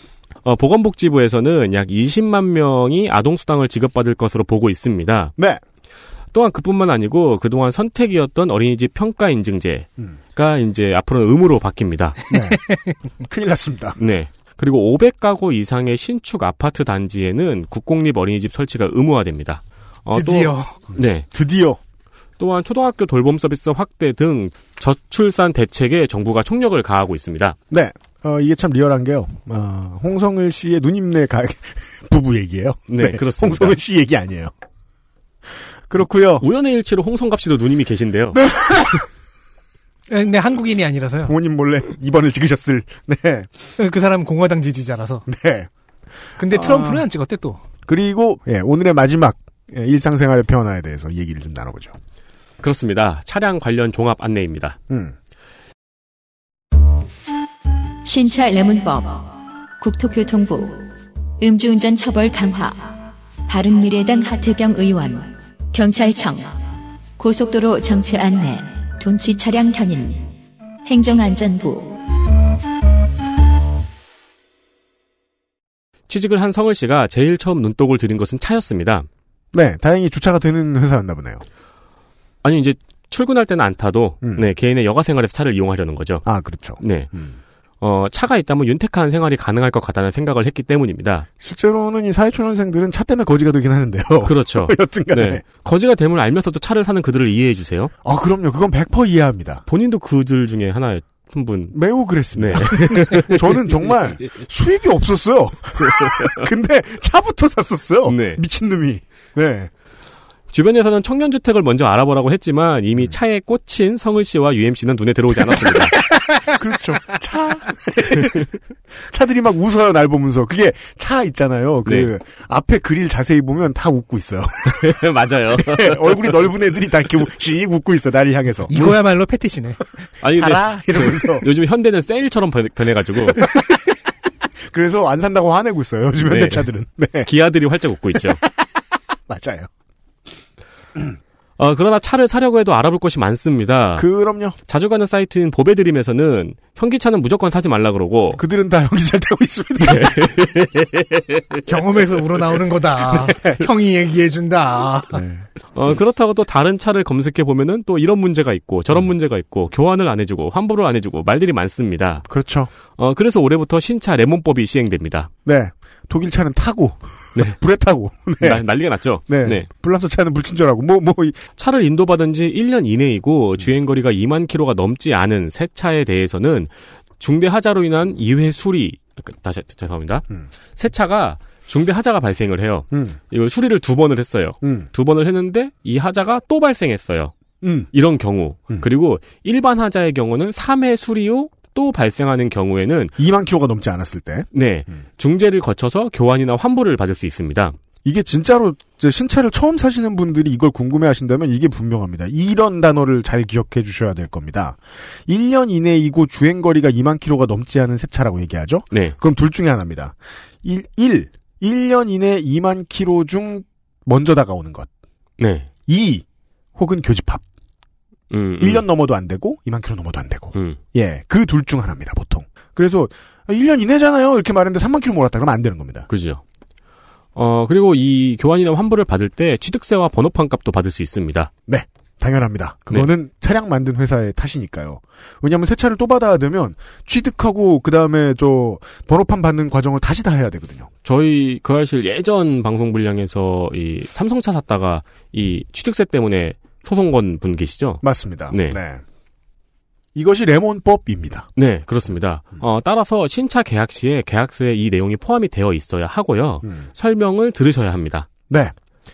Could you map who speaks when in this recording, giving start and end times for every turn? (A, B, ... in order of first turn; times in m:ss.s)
0:00.4-0:05.3 A
0:05.4-0:05.6 B
0:06.3-0:12.2 A
0:12.3-0:12.6 B
0:13.2-0:14.0 B
0:14.0-0:21.3 A
0:20.1-0:20.8 C
0:21.0-0:21.8 B
0:22.4-0:27.6 A
0:27.7-0:34.5 B
0:32.9-0:33.8 A
0:35.9-0:36.4 B
0:36.4-0:38.4 A
0:38.3-0:39.1 B
0:40.1-0:41.3 C
0:41.2-0:43.5 B
0:43.8-0:45.2 C
0:45.3-0:45.7 B
0:46.4-0:47.6 C
0:46.5-0:47.0 B
0:47.9-0:52.0 B
0:52.6-0:54.8 A
0:54.9-0:55.2 B
0:58.0-1:03.0 D
1:03.5-1:06.6 D
1:07.2-1:10.3 D
1:10.9-1:12.0 D
1:16.1-1:19.1 A
1:19.5-1:21.4 B
1:22.4-1:26.3 A
1:26.3-1:27.4 B
1:26.8-1:27.1 A
1:27.8-1:31.3 A
1:31.4-1:35.4 B
1:34.2-1:37.9 A
1:38.0-1:39.6 B
1:39.7-1:41.8 A
1:41.7-1:49.7 B
1:42.4-1:43.5 A
1:46.0-1:46.3 A
1:48.1-1:48.4 A
1:50.5-1:56.0 A
1:56.3-2:08.7 B
2:04.7-2:06.4 A
2:08.7-2:10.0 C
2:10.2-2:13.4 A
2:10.4-2:11.5 B
2:13.4-2:13.8 B
2:14.6-2:17.3 B
2:16.2-2:16.7 A
2:17.2-2:18.4 A
2:19.3-2:19.7 B
2:21.6-2:24.1 A
2:24.0-2:24.6 B
2:24.7-2:28.4 A
2:28.4-2:30.3 B
2:29.8-2:31.6 A
2:31.7-2:35.2 C
2:33.1-2:33.6 B
2:35.1-2:35.5 B
2:35.7-2:42.3 A
2:42.3-2:42.7 B
2:43.0-2:45.3 A
2:45.5-2:48.6 B
2:48.4-2:49.7 A
2:49.3-2:51.4 B
2:51.6-3:07.3 A
3:02.9-3:03.2 B
3:07.6-3:07.9 B
3:07.9-3:13.2 A
3:13.2-3:14.5 B
3:14.5-3:17.8 A
3:18.0-3:34.9 B
3:35.4-3:35.7 A
3:35.9-3:36.2 B
3:36.8-3:37.4 B
3:38.3-3:38.8 A
3:38.6-3:46.1 B
3:46.1-3:46.4 A
3:47.4-3:51.5 A
3:51.7-4:00.9 B
4:01.0-4:08.8 A
4:08.0-4:09.0 B
4:10.2-4:11.5 B
4:11.6-4:18.3 A
4:18.5-4:18.8 B